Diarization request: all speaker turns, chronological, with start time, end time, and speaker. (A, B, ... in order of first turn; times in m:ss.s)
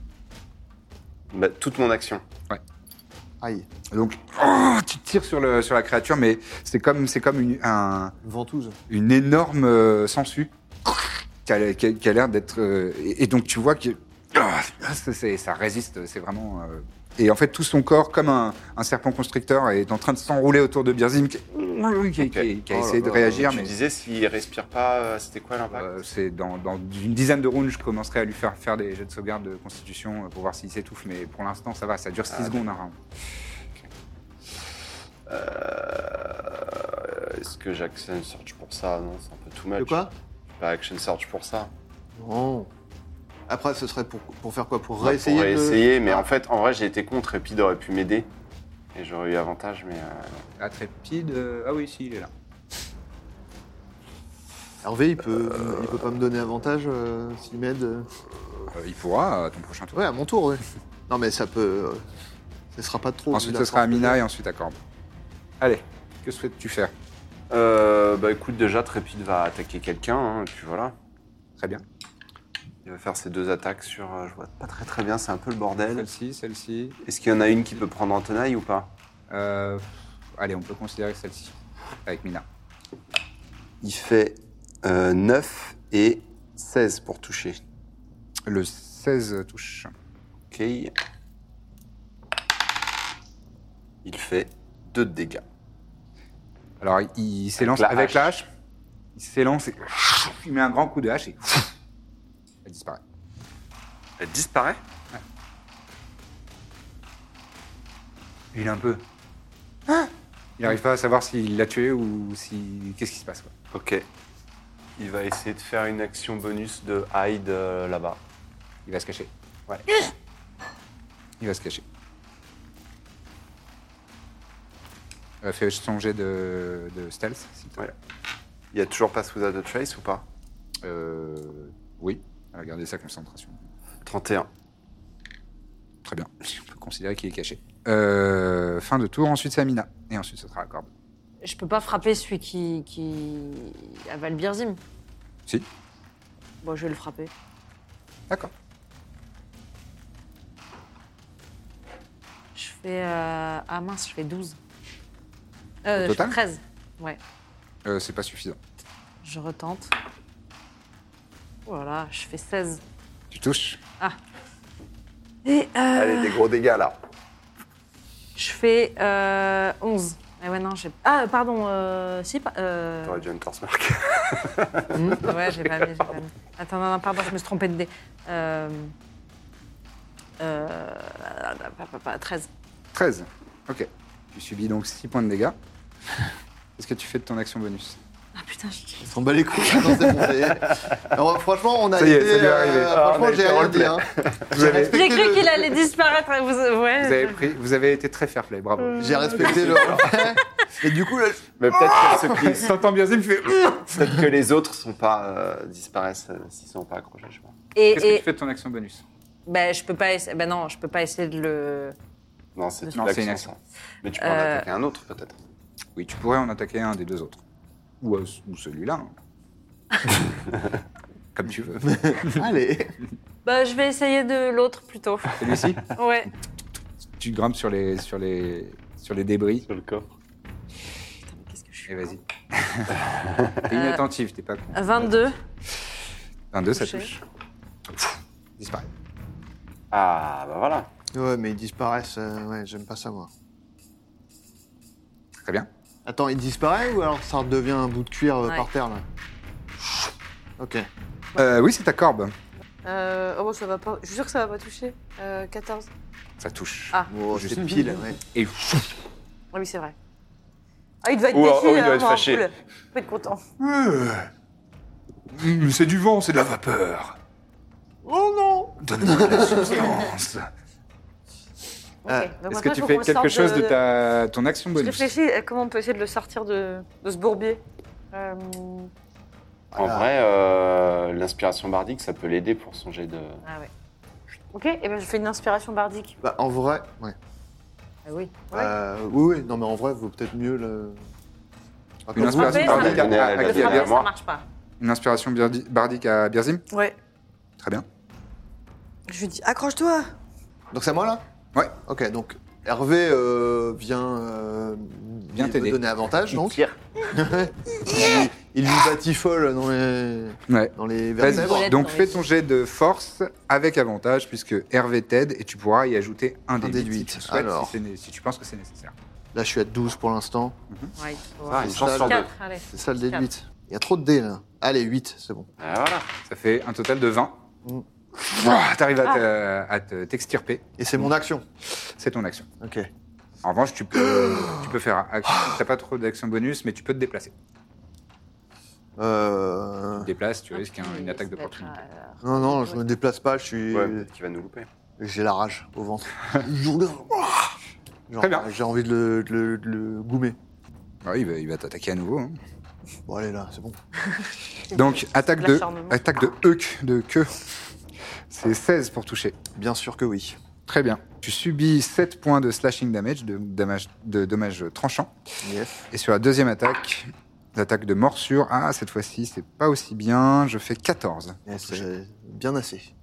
0:01.3-0:02.2 A
0:03.4-0:03.7 B
0:03.9-0:08.1 C
0:08.2-0:08.8 B
0:08.9-0:23.7 C
0:22.2-0:22.5 A
0:22.7-0:23.7 B
0:23.3-0:25.9 A
0:25.7-0:33.0 C
0:32.3-0:32.6 A
0:35.3-0:41.7 A
0:39.8-0:40.1 B
0:42.2-0:42.7 B
0:43.5-0:46.3 B
0:45.0-0:48.3 A
0:48.9-0:50.5 A
0:50.6-0:52.3 C
0:54.8-0:58.1 B
0:58.7-1:00.0 C
0:59.9-1:02.0 B
1:02.7-1:04.2 B
1:03.3-1:04.8 C
1:05.6-1:06.9 C
1:07.5-1:10.9 A
1:11.6-1:11.8 C
1:12.8-1:16.1 A
1:15.9-1:17.0 C
1:17.0-1:18.9 A
1:19.3-1:21.5 C
1:22.0-1:22.4 C
1:23.8-1:27.6 A
1:28.4-1:29.9 C
1:30.5-1:30.9 A
1:34.0-1:35.4 A
1:36.8-1:38.5 C
1:37.6-1:38.4 A
1:39.1-1:41.6 C
1:42.6-1:43.0 C
1:44.2-1:44.8 A
1:48.5-1:49.0 C
1:49.9-1:53.5 C
1:53.7-1:54.0 A
1:55.0-1:58.2 A
1:58.8-1:59.3 C
2:01.4-2:01.8 C
2:05.4-2:07.8 C
2:08.7-2:10.2 A
2:10.8-2:13.6 C
2:14.0-2:14.5 A
2:16.0-2:20.9 C
2:21.4-2:24.8 D
2:26.6-2:27.3 D
2:32.5-2:34.6 D
2:35.8-2:37.2 D
2:36.0-2:36.4 C
2:37.8-2:38.6 C
2:39.2-2:39.9 D
2:41.6-2:42.8 D
2:43.3-2:43.8 C
2:45.4-2:46.4 D
2:45.9-2:47.0 A
2:48.4-2:53.2 D
2:53.0-2:55.9 A
2:54.9-2:55.2 B
2:55.2-2:58.9 D
3:00.4-3:02.5 D
3:02.9-3:05.6 C
3:06.8-3:08.0 C
3:08.4-3:09.1 D
3:09.0-3:15.7 B
3:11.9-3:13.0 C
3:12.9-3:14.5 A
3:14.5-3:15.3 C
3:14.9-3:17.5 D
3:17.0-3:20.3 C
3:18.9-3:21.5 B
3:19.4-3:20.2 A
3:21.6-3:22.8 A
3:21.7-3:24.2 C
3:23.9-3:27.5 A
3:27.7-3:28.3 D
3:27.9-3:29.0 C
3:29.4-3:31.9 D
3:32.6-3:35.4 A
3:32.9-3:33.5 C
3:34.2-3:34.7 D
3:36.0-3:37.4 C
3:38.0-3:39.1 C
3:41.3-3:42.4 C
3:41.8-3:42.9 B
3:43.4-3:46.3 D
3:45.4-3:45.8 C
3:47.2-3:49.6 C
3:49.7-3:50.1 A
3:51.3-3:52.1 D
3:51.9-3:53.0 C
3:53.0-3:53.6 A
3:53.7-3:55.3 C
3:53.7-3:54.0 D
3:54.7-3:55.4 D
3:56.5-3:57.2 C
3:56.7-3:57.1 D
3:58.6-3:58.9 C
3:59.9-4:00.9 A
4:01.1-4:03.3 B
4:05.4-4:05.7 C
4:06.0-4:09.0 B
4:10.6-4:10.9 B
4:11.4-4:12.3 C
4:12.8-4:15.9 E
4:16.4-4:18.9 C
4:17.1-4:18.2 B
4:19.5-4:19.9 E
4:21.0-4:23.4 E
4:21.3-4:22.5 A
4:23.6-4:24.3 C
4:25.3-4:27.2 C
4:28.0-4:29.9 B
4:28.8-4:30.5 C
4:32.0-4:33.8 E
4:32.1-4:32.3 B
4:32.5-4:35.1 C
4:34.7-4:38.9 E
4:39.7-4:40.1 B
4:39.8-4:43.4 A
4:43.4-4:43.7 D
4:44.5-4:46.2 E
4:46.2-4:47.2 B
4:48.0-4:48.4 D
4:48.5-4:51.0 B
4:52.1-4:53.2 B
4:52.1-4:53.9 C
4:52.2-4:54.4 D
4:52.4-4:54.1 A
4:54.8-4:56.6 C
4:57.6-4:57.8 C
4:59.1-5:00.1 E
5:00.7-5:01.2 B
5:01.8-5:11.7 B
5:05.3-5:05.8 C
5:10.5-5:18.9 C
5:11.2-5:12.2 D
5:16.6-5:17.7 B
5:19.3-5:20.6 B
5:21.0-5:23.3 D
5:21.5-5:22.3 A
5:21.6-5:25.5 B
5:25.6-5:26.1 A
5:26.2-5:27.4 C
5:28.2-5:31.1 C
5:30.8-5:31.4 B
5:31.7-5:32.5 C
5:32.6-5:32.9 B
5:33.4-5:37.3 C
5:34.2-5:34.6 B
5:39.0-5:40.1 B
5:39.9-5:41.8 C
5:40.5-5:42.8 D
5:42.2-5:44.1 B
5:43.7-5:44.7 A
5:45.0-5:47.5 B
5:48.1-5:50.4 B
5:48.2-5:48.5 C
5:51.0-5:52.4 C
5:53.0-5:53.8 B
5:54.7-5:56.0 E
5:54.7-5:57.4 C
5:58.3-5:59.4 C
5:59.5-6:00.4 B
6:00.7-6:05.1 C
6:05.4-6:05.8 B
6:05.9-6:11.8 C
6:11.5-6:12.9 B